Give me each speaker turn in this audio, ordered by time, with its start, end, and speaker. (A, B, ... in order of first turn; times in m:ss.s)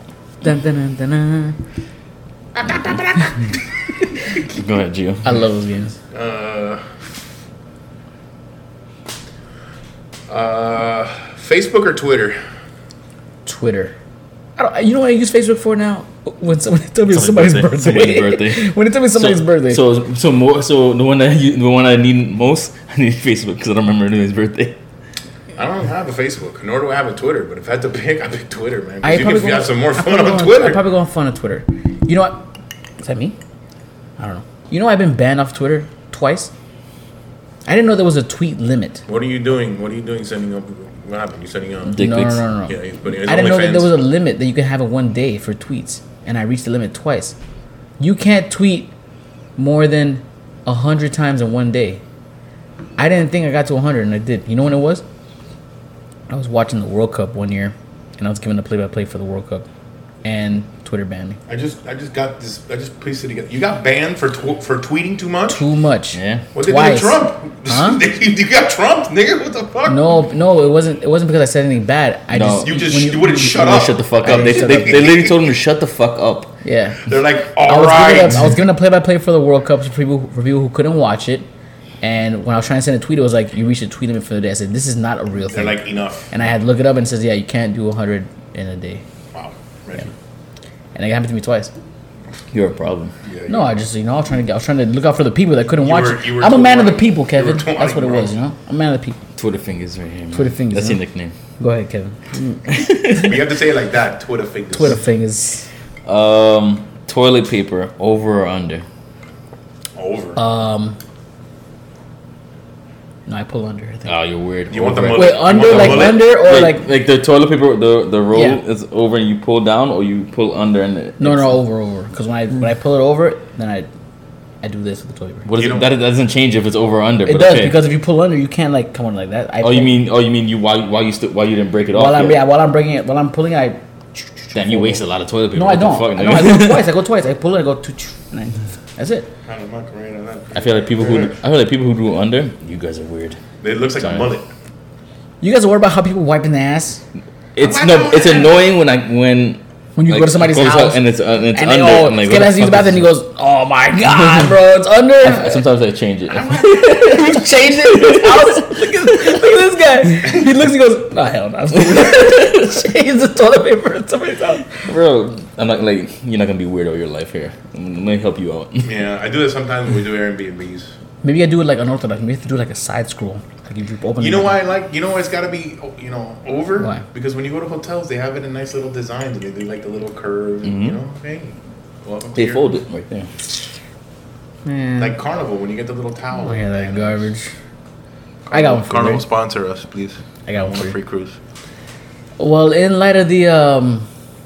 0:00.4-0:01.6 A
0:02.6-0:03.3 B
0:02.6-0:03.0 C
0:04.5-0:05.4 C
0:05.2-0:06.0 A
0:06.1-0:07.0 B
0:10.3-0:12.4 B
0:13.4-0:13.9 A
0:14.6-0:19.8 A
0:17.1-0:24.8 C
0:25.6-0:30.8 B
0:29.0-0:32.4 A
0:33.0-0:33.4 A
0:34.2-0:36.5 A
0:37.6-0:39.0 A
0:39.1-0:42.0 B
0:41.9-0:47.4 A
0:41.9-0:42.4 C
0:42.7-0:43.9 B
0:48.0-0:48.9 A
0:49.6-0:52.0 A
0:53.0-0:55.0 A
0:56.3-0:59.6 A
1:00.2-1:01.4 A
1:01.5-1:05.6 B
1:05.5-1:08.0 A
1:06.1-1:06.4 C
1:06.5-1:10.0 B
1:09.9-1:15.1 A
1:12.3-1:12.8 C
1:12.6-1:15.4 B
1:13.4-1:16.5 C
1:16.6-1:17.1 A
1:17.1-1:18.5 B
1:17.6-1:21.5 A
1:22.0-1:29.0 A
1:25.5-1:26.3 B
1:29.3-1:30.1 B
1:30.9-1:31.7 A
1:32.5-1:33.1 C
1:33.2-1:33.7 B
1:33.5-1:39.2 A
1:35.8-1:38.3 B
1:39.4-1:41.3 C
1:40.3-1:41.0 A
1:41.6-1:43.4 A
1:42.7-1:43.4 C
1:43.1-1:45.0 B
1:44.7-1:45.7 A
1:46.0-1:48.8 C
1:50.0-1:50.4 B
1:50.4-1:51.0 A
1:53.3-1:54.2 A
1:54.1-2:01.5 C
1:54.7-1:56.3 B
1:55.1-1:56.8 A
1:58.3-1:58.6 A
2:01.2-2:03.9 A
2:04.6-2:05.5 A
2:05.4-2:07.8 C
2:05.5-2:05.9 B
2:07.2-2:10.0 A
2:09.6-2:12.4 C
2:11.9-2:19.3 A
2:14.5-2:16.9 C
2:19.5-2:21.3 B
2:20.5-2:23.4 C
2:23.6-2:24.5 B
2:24.0-2:24.3 C
2:25.4-2:27.0 A
2:27.5-2:33.1 C
2:27.6-2:28.6 B
2:30.0-2:35.6 A
2:35.2-2:38.8 C
2:36.3-2:37.3 B
2:36.6-2:44.8 A
2:41.9-2:42.3 C
2:44.8-2:48.9 C
2:48.8-2:50.9 B
2:51.2-2:54.6 A
2:54.2-3:02.7 B
3:00.6-3:01.0 C
3:02.3-3:03.3 C
3:04.6-3:05.1 A
3:05.0-3:07.2 B
3:06.3-3:07.5 A
3:08.5-3:11.4 B
3:08.5-3:09.2 A
3:10.5-3:10.9 A
3:12.4-3:14.1 A